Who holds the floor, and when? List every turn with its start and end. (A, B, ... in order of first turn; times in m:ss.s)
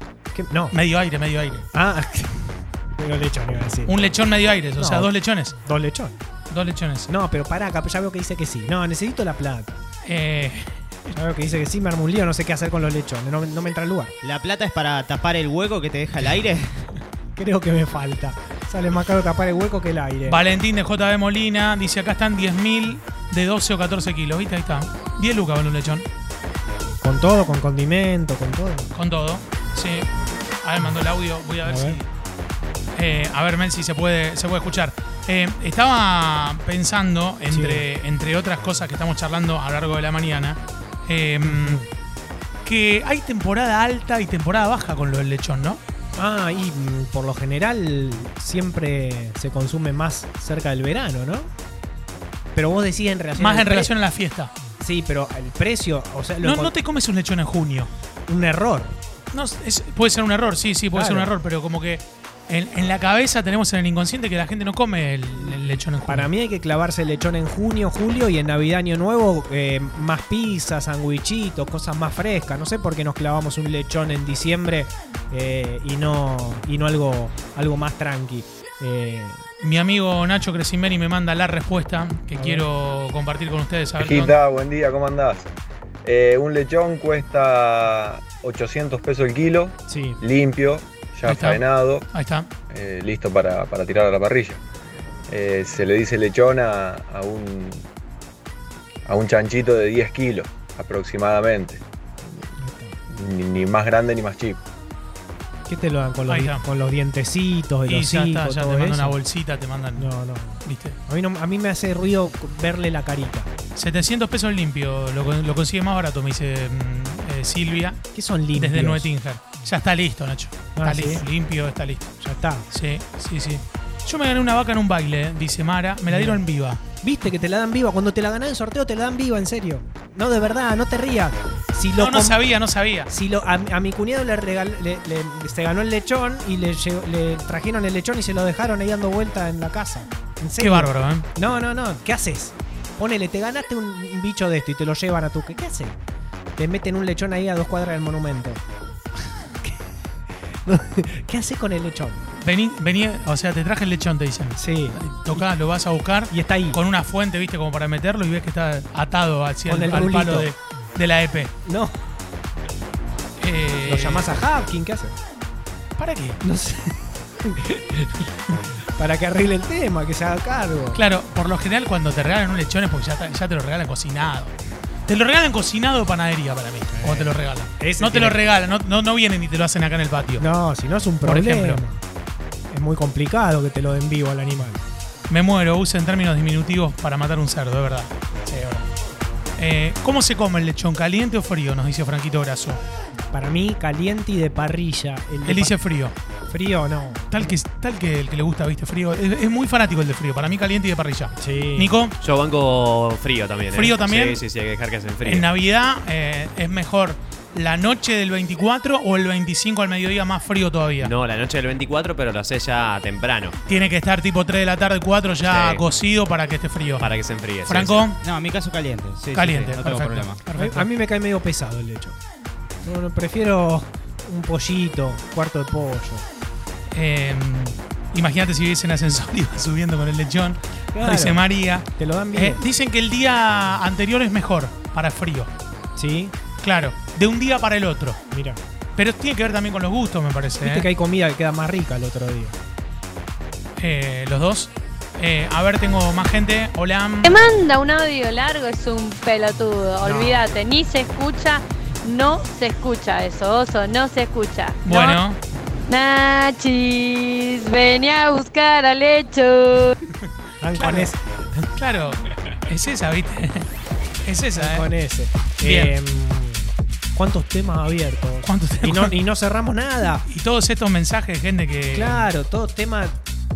0:00.3-0:00.8 A
0:00.7-0:01.7 B
0:01.7-0:03.9 A
0:03.9-0:05.6 B
0:04.8-0:05.1 A
0:05.6-0:06.2 A
0:06.5-0:07.1 B
0:07.1-0:09.8 A
0:10.0-0:11.1 B
0:11.1-0:14.1 A
0:14.2-0:16.8 C
0:17.4-0:20.4 A
0:20.3-0:26.1 B
0:27.0-0:28.9 A
0:28.9-0:30.1 B
0:30.6-0:32.1 B
0:31.6-0:32.0 A
0:33.0-0:41.8 B
0:37.5-0:37.8 A
0:41.4-0:41.9 A
0:42.6-0:45.8 B
0:46.2-0:51.5 A
0:52.6-0:53.9 A
0:53.4-0:54.5 B
0:54.8-0:56.7 A
0:56.4-0:57.9 B
0:58.3-0:59.0 A
0:59.3-1:06.3 B
1:00.9-1:01.3 A
1:06.0-1:19.4 A
1:19.6-1:24.4 B
1:22.4-1:22.6 A
1:24.0-1:25.5 D
1:26.0-1:32.0 D
1:29.9-1:30.2 A
1:31.3-1:32.5 B
1:32.7-1:34.6 D
1:35.3-1:37.9 D
1:39.1-1:41.8 D
1:42.6-1:43.0 A
1:43.1-1:44.6 D
1:45.7-1:49.2 A
1:46.3-1:46.6 B
1:47.9-1:50.1 B
1:50.0-1:53.5 A
1:50.6-1:51.0 B
1:53.8-2:02.1 B
1:58.1-1:59.1 A
2:00.8-2:01.2 A
2:02.2-2:02.7 A
2:02.7-2:06.8 B
2:06.1-2:06.4 A
2:07.0-2:12.4 A
2:12.0-2:13.1 B
2:13.1-2:26.0 A
2:20.6-2:21.3 B
2:26.6-2:28.6 A
2:30.7-2:32.2 A
2:32.4-2:41.5 B
2:34.6-2:35.5 A
2:36.3-2:36.8 A
2:39.7-2:40.5 A
2:41.6-2:42.0 A
2:43.4-2:44.3 B
2:43.8-2:45.2 A
2:46.0-2:46.4 B
2:46.4-2:51.0 A
2:51.0-2:54.5 B
2:55.1-3:00.4 B
2:56.9-2:58.4 A
3:00.4-3:02.0 A
3:01.2-3:01.8 B
3:02.7-3:04.8 A
3:05.3-3:08.9 B
3:09.6-3:12.8 B
3:13.3-3:15.7 A
3:15.5-3:16.1 B
3:16.5-3:17.6 A
3:17.3-3:22.2 B
3:21.4-3:21.9 A
3:22.2-3:25.5 E
3:23.7-3:24.4 B
3:25.2-3:31.1 B
3:31.0-3:33.6 E
3:33.7-3:37.1 B
3:35.4-3:35.8 E
3:37.0-3:38.1 E
3:37.6-3:38.2 B
3:38.2-3:40.4 C
3:39.3-3:40.9 B
3:40.5-3:42.2 A
3:42.8-3:46.2 A
3:46.9-3:55.5 B
3:50.9-3:51.4 A
3:51.9-3:52.6 A
3:56.0-3:56.3 A
3:56.6-3:58.2 B
3:58.3-3:58.6 A
3:59.0-4:00.9 B
4:00.6-4:02.6 A
4:03.8-4:07.4 B
4:07.2-4:15.2 F
4:10.0-4:10.4 B
4:14.8-4:15.4 B
4:15.9-4:20.0 F
4:20.6-4:21.6 A
4:20.8-4:21.1 B
4:21.8-4:23.7 B
4:24.2-4:24.9 B
4:24.6-4:30.3 A
4:25.6-4:25.9 B
4:28.4-4:29.2 B
4:30.3-4:32.3 B
4:31.9-4:33.2 A